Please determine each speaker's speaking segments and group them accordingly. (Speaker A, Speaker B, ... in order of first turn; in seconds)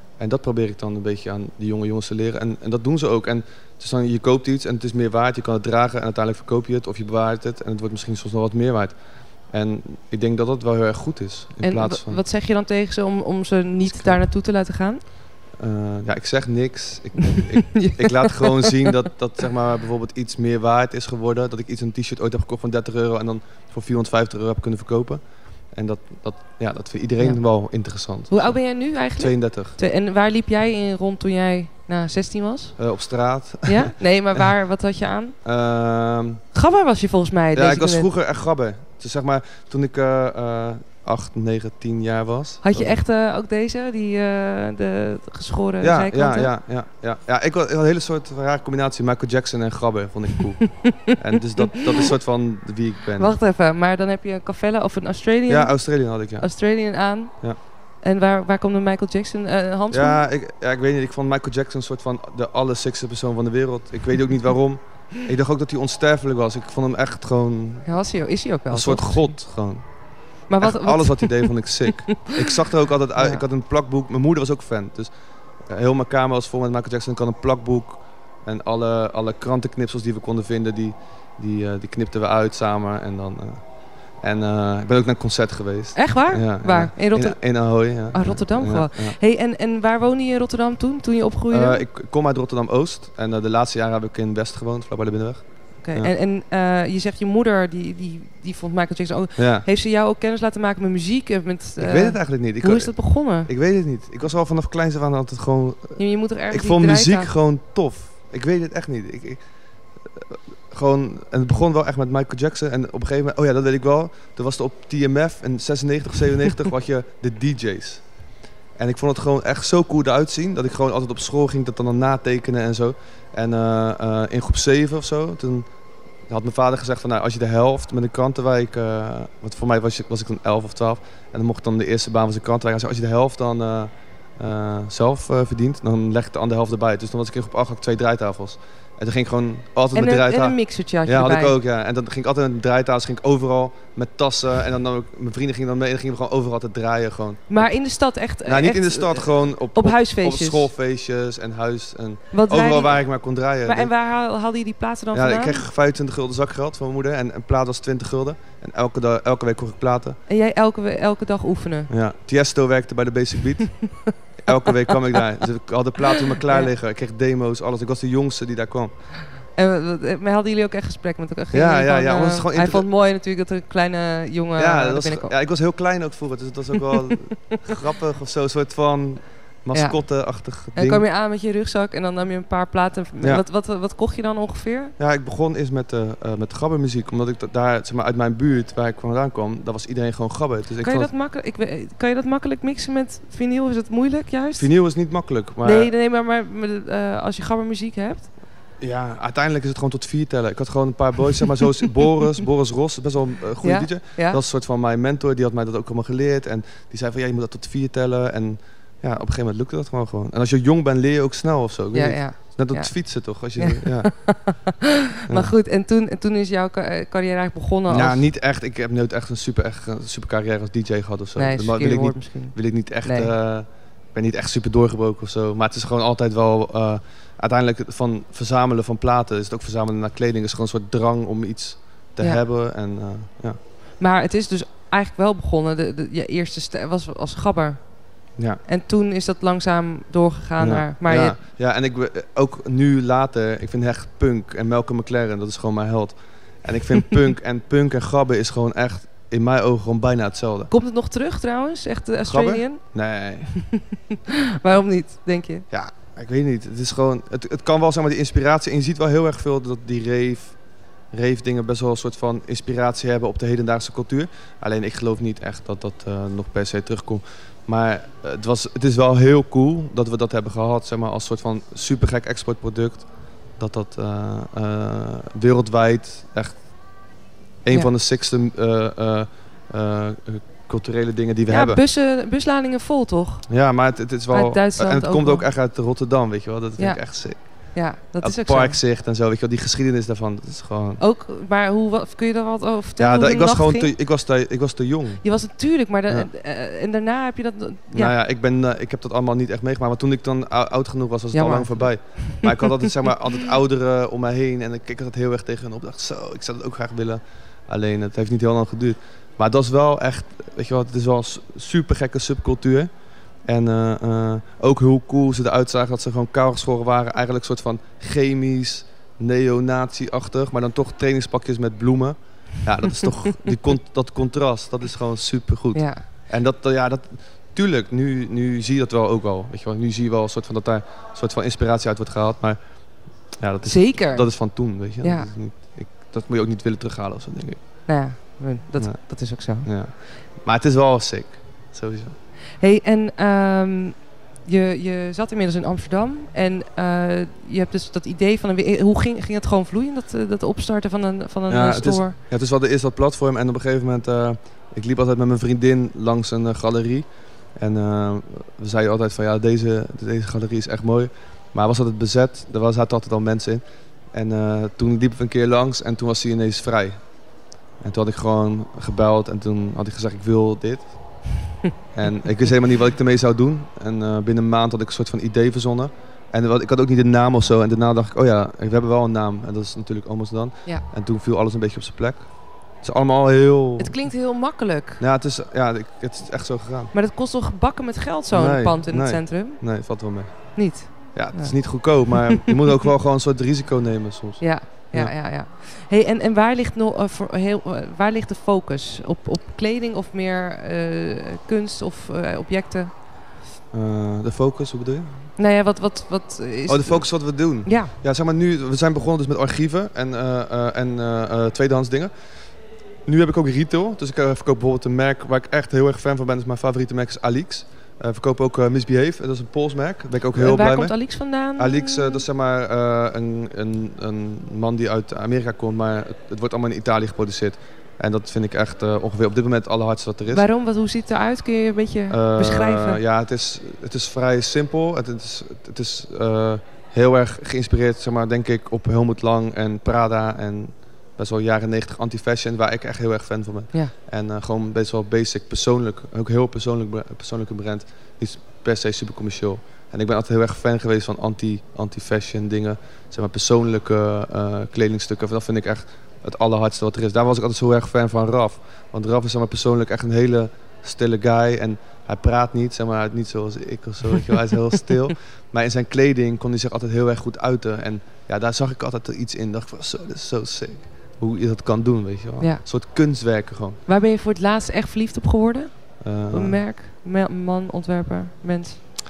Speaker A: 0.2-8.9, 9.5-12.2, 15.6-25.2, 25.7-28.6, 29.1-29.8, 32.8-33.9, 35.5-36.4, 37.5-43.0, 45.8-53.4, 55.5-56.5, 59.9-67.9, 68.7-69.8, 70.6-75.1, 75.7-83.6, 84.2-89.2, 91.5-96.1, 99.4-99.7, 101.8-109.4, 110.1-118.0, 118.8-125.7, 126.3-147.7, 148.4-153.9, 155.1-160.2, 161.9-163.9, 164.4-168.9, 171.5-172.9, 174.6-181.0, 185.0-191.1, 194.6-195.9, 198.8-214.3, 217.9-233.6, 240.6-250.7, 252.3-253.5, 255.7-260.6, 261.1-276.6, 277.6-281.8, 283.5-291.0, 293.0-295.2, 297.9-312.9, 313.5-332.6, 333.3-337.6, 338.8-342.2, 351.5-363.6, 364.1-367.0, 367.8-371.2, 371.9-382.3, 382.8-384.0, 385.0-386.9, 388.3-395.1, 403.7-405.2, 406.7-412.1, 413.1-421.0, 421.6-430.5, 432.1-473.8, 476.0-476.6
Speaker B: 11.6-15.0, 17.2-18.9, 28.3-32.8, 33.7-35.4, 36.5-38.1, 42.6-46.5, 50.8-52.1, 53.2-55.8, 56.4-57.3, 58.0-60.2, 67.8-69.3, 70.5-72.2, 73.2-73.4, 86.0-87.4, 88.1-91.8, 95.8-103.5, 106.0-107.3, 139.9-141.6, 147.5-150.7, 152.3-153.0, 153.6-155.6, 160.3-161.9, 163.8-164.9, 166.2-166.7, 169.6-175.3, 176.9-177.6, 180.8-184.9, 190.8-194.7, 195.6-198.3, 203.6-204.4, 211.9-218.3, 221.4-223.3, 234.0-237.9, 238.7-241.4, 250.7-252.8, 253.5-255.7, 281.5-283.5, 284.3-285.4, 287.7-288.8, 291.0-293.9, 295.2-298.1, 301.3-302.9, 325.7-326.0, 333.6-334.3, 335.0-335.3, 337.9-339.7, 342.6-352.2, 383.8-385.0, 386.9-389.6, 390.6-392.5, 394.4-402.9, 405.4-407.1, 407.6-407.9, 420.4-422.2, 430.3-433.0, 473.9-475.7, 476.3-478.8